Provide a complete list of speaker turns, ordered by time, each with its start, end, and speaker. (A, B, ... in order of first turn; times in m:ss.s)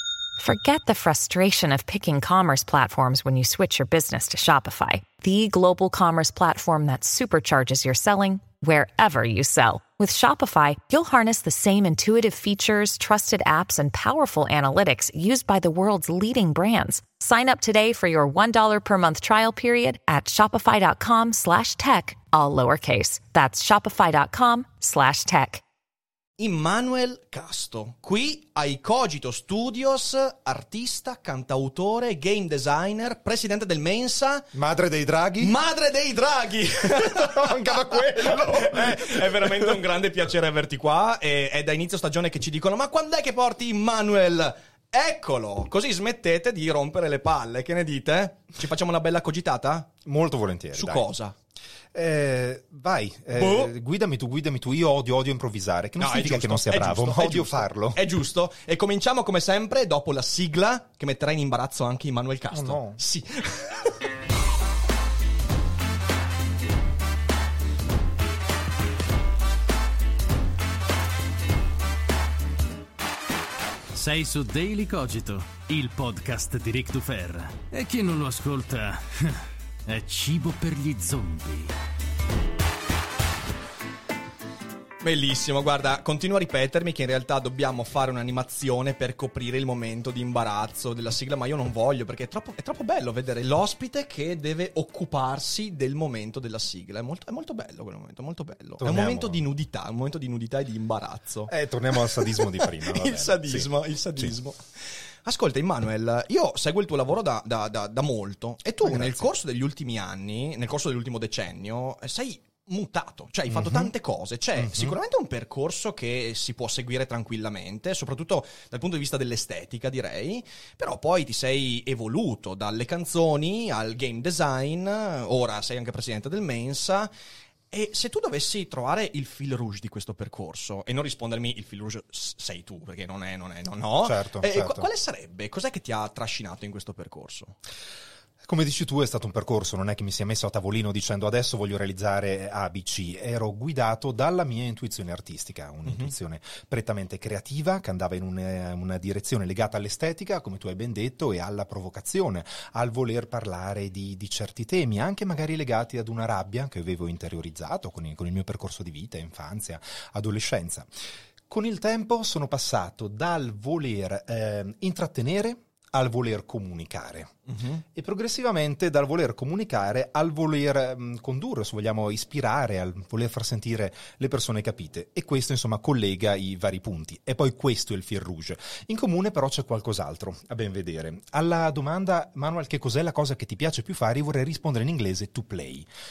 0:00.4-0:25.6 A
0:26.4-0:34.5 B
0:34.5-0:35.5 C
0:35.4-0:49.9 B
0:37.0-0:39.7 C
0:50.0-0:51.0 C
0:50.7-0:51.3 B
0:51.9-0:58.0 C
0:53.3-0:53.7 B
0:56.0-1:03.9 B
1:02.5-1:03.0 C
1:13.9-1:21.7 D
1:25.0-2:07.1 B
1:38.8-1:39.4 C
1:41.5-1:44.3 C
1:48.6-1:49.3 C
1:53.5-1:53.9 C
1:54.6-1:55.0 C
2:07.7-2:17.6 B
2:14.0-2:14.9 C
2:18.4-2:40.9 C
2:25.8-2:26.1 B
2:41.5-3:05.9 C
2:47.5-2:47.8 B